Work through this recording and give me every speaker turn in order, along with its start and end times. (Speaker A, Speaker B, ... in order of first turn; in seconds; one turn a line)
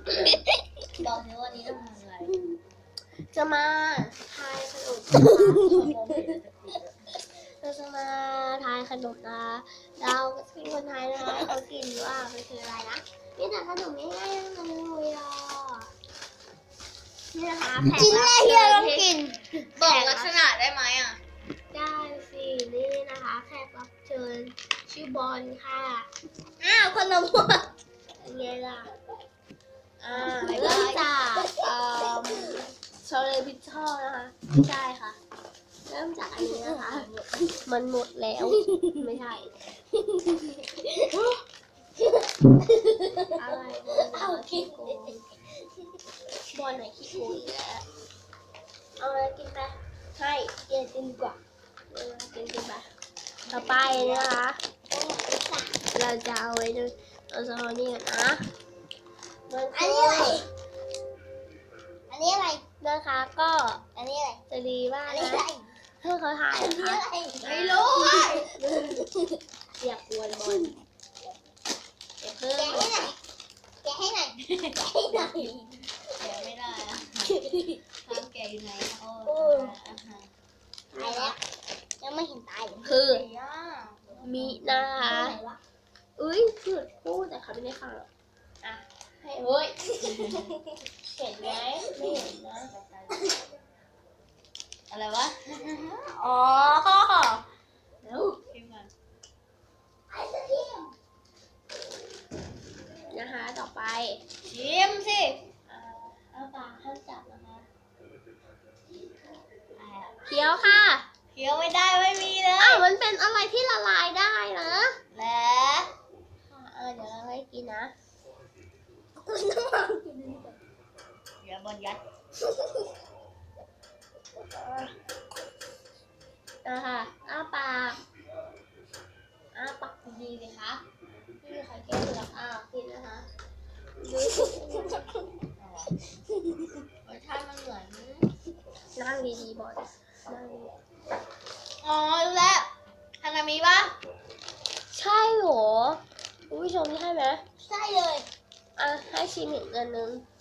Speaker A: 0.9-2.4
Speaker B: 3.3-5.8
Speaker C: 5.1-5.8
Speaker A: 5.3-7.1
Speaker B: 7.6-15.9
Speaker B: 17.3-20.4
Speaker C: 17.9-19.4
Speaker A: 19.8-21.2
Speaker B: 21.7-26.1
Speaker C: 26.6-27.7
Speaker B: 28.2-28.9
Speaker B: 30.0-35.2
Speaker A: 30.1-31.1
Speaker C: 31.4-32.5
Speaker B: 35.9-37.1
Speaker C: 36.4-37.3
Speaker B: 37.6-39.5
Speaker C: 38.4-38.9
Speaker C: 39.9-41.3
Speaker C: 42.0-45.2
Speaker B: 43.3-45.2
Speaker B: 46.5-47.8
Speaker B: 49.0-50.6
Speaker C: 50.7-51.4
Speaker B: 51.9-52.9
Speaker A: 53.5-54.3
Speaker B: 53.5-54.6
Speaker C: 54.9-55.8
Speaker B: 55.9-58.4
Speaker B: 59.5-60.4
Speaker C: 59.7-60.5
Speaker C: 62.1-62.6
Speaker B: 62.8-63.8
Speaker C: 63.9-64.4
Speaker B: 64.5-65.5
Speaker C: 65.0-65.7
Speaker B: 66.0-69.0
Speaker C: 66.5-67.5
Speaker A: 67.4-68.5
Speaker C: 68.8-69.4
Speaker B: 69.8-70.8
Speaker B: 72.2-73.0
Speaker C: 72.5-73.2
Speaker C: 73.8-75.8
Speaker A: 74.5-75.5
Speaker A: 76.2-77.4
Speaker C: 77.3-77.8
Speaker A: 78.0-80.3
Speaker C: 79.2-79.8
Speaker B: 80.9-81.4
Speaker C: 80.9-81.4
Speaker C: 82.0-82.8
Speaker B: 82.8-83.2
Speaker A: 82.8-85.2
Speaker B: 84.2-85.4
Speaker C: 85.0-85.6
Speaker B: 86.2-88.1
Speaker B: 88.6-89.8
Speaker A: 90.0-90.5
Speaker C: 90.3-90.6
Speaker B: 91.1-92.7
Speaker C: 91.9-92.2
Speaker A: 92.5-93.3
Speaker C: 93.1-93.4
Speaker A: 94.9-97.4
Speaker A: 98.5-98.9
Speaker C: 100.1-100.9
Speaker B: 103.1-104.2
Speaker A: 104.4-105.4
Speaker B: 105.7-107.7
Speaker A: 109.8-110.2
Speaker B: 110.2-111.0
Speaker A: 111.3-112.9
Speaker B: 112.6-115.0
Speaker A: 115.1-115.9
Speaker B: 116.5-117.9
Speaker C: 119.2-120.6
Speaker A: 121.4-122.0
Speaker B: 124.5-124.9
Speaker B: 126.6-128.0
Speaker B: 129.5-130.8
Speaker B: 131.4-133.3
Speaker B: 134.0-135.1
Speaker C: 134.4-135.0
Speaker A: 135.6-136.0
Speaker A: 137.0-138.3
Speaker B: 138.9-140.7
Speaker A: 141.8-143.9
Speaker B: 144.9-147.4
Speaker C: 147.6-148.3
Speaker B: 148.8-150.2